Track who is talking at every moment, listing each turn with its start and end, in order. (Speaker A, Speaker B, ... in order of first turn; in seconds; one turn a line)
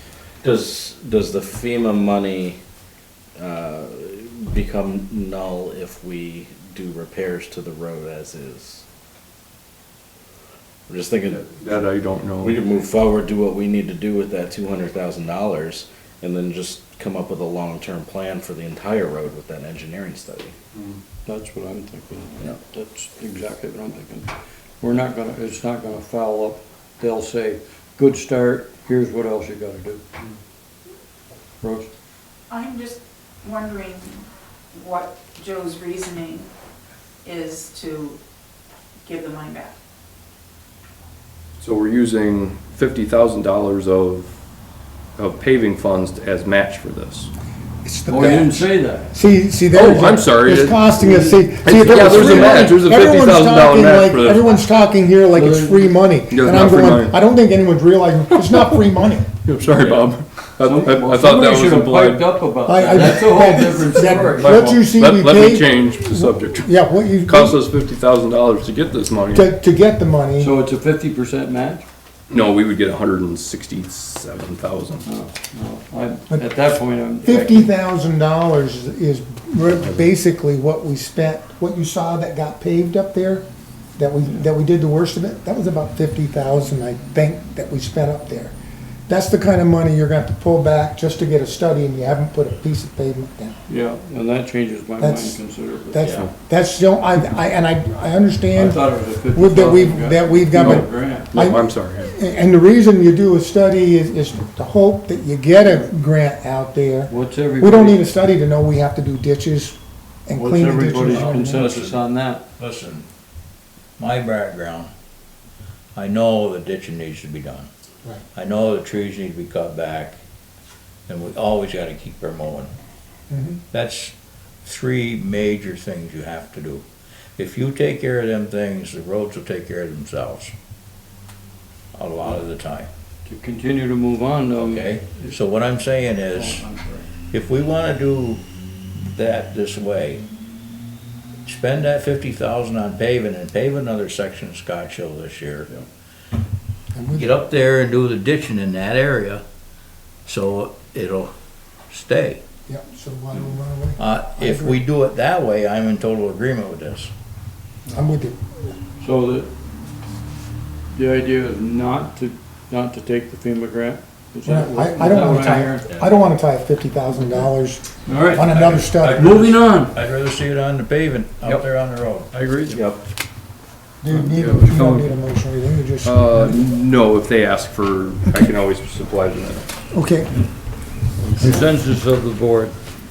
Speaker A: 0.4-2.6
Speaker A: 3.4-8.8
Speaker A: 10.9-11.6
Speaker B: 11.3-12.6
Speaker A: 12.4-20.5
Speaker B: 20.7-21.0
Speaker C: 21.3-24.3
Speaker C: 24.8-30.0
Speaker C: 31.6-31.9
Speaker D: 32.5-36.5
Speaker D: 37.2-38.2
Speaker D: 39.0-39.8
Speaker B: 41.6-44.4
Speaker B: 45.2-47.3
Speaker E: 47.8-59.3
Speaker C: 48.1-49.2
Speaker B: 49.7-50.9
Speaker C: 51.0-52.7
Speaker B: 51.6-54.6
Speaker C: 55.3-56.0
Speaker B: 56.3-57.2
Speaker B: 59.5-62.2
Speaker C: 59.8-60.1
Speaker C: 60.6-64.8
Speaker E: 62.7-67.6
Speaker B: 64.2-69.5
Speaker E: 69.3-70.5
Speaker C: 70.4-71.8
Speaker B: 72.3-75.1
Speaker C: 75.0-77.7
Speaker E: 77.2-88.6
Speaker E: 89.1-93.6
Speaker C: 93.7-96.1
Speaker E: 95.0-95.4
Speaker E: 95.9-111.7
Speaker A: 96.0-96.3
Speaker C: 98.5-101.3
Speaker B: 100.5-102.1
Speaker C: 107.1-108.1
Speaker C: 110.3-112.4
Speaker F: 111.0-112.1
Speaker F: 112.6-113.1
Speaker F: 114.0-114.9
Speaker F: 116.0-117.7
Speaker F: 118.3-120.2
Speaker F: 121.1-122.7
Speaker E: 123.3-123.6
Speaker F: 123.7-124.1
Speaker F: 124.6-126.8
Speaker F: 127.4-130.5
Speaker F: 131.9-132.9
Speaker C: 133.2-135.4
Speaker F: 134.6-136.7
Speaker C: 136.2-137.1
Speaker F: 137.3-138.4
Speaker F: 138.9-140.2
Speaker F: 141.4-145.7
Speaker E: 146.9-147.3
Speaker F: 147.1-149.4
Speaker F: 150.3-151.3
Speaker F: 151.9-152.4
Speaker E: 152.7-154.8
Speaker F: 154.0-157.1
Speaker E: 157.9-158.4
Speaker C: 159.0-159.5
Speaker C: 160.9-166.0
Speaker E: 164.4-169.3
Speaker C: 168.1-168.5
Speaker F: 168.3-172.3
Speaker C: 169.1-170.0
Speaker C: 171.4-172.8
Speaker A: 172.7-173.0
Speaker E: 174.0-176.6
Speaker C: 174.1-175.2
Speaker B: 176.0-179.7
Speaker E: 179.9-180.3
Speaker C: 181.2-182.8
Speaker E: 181.4-181.7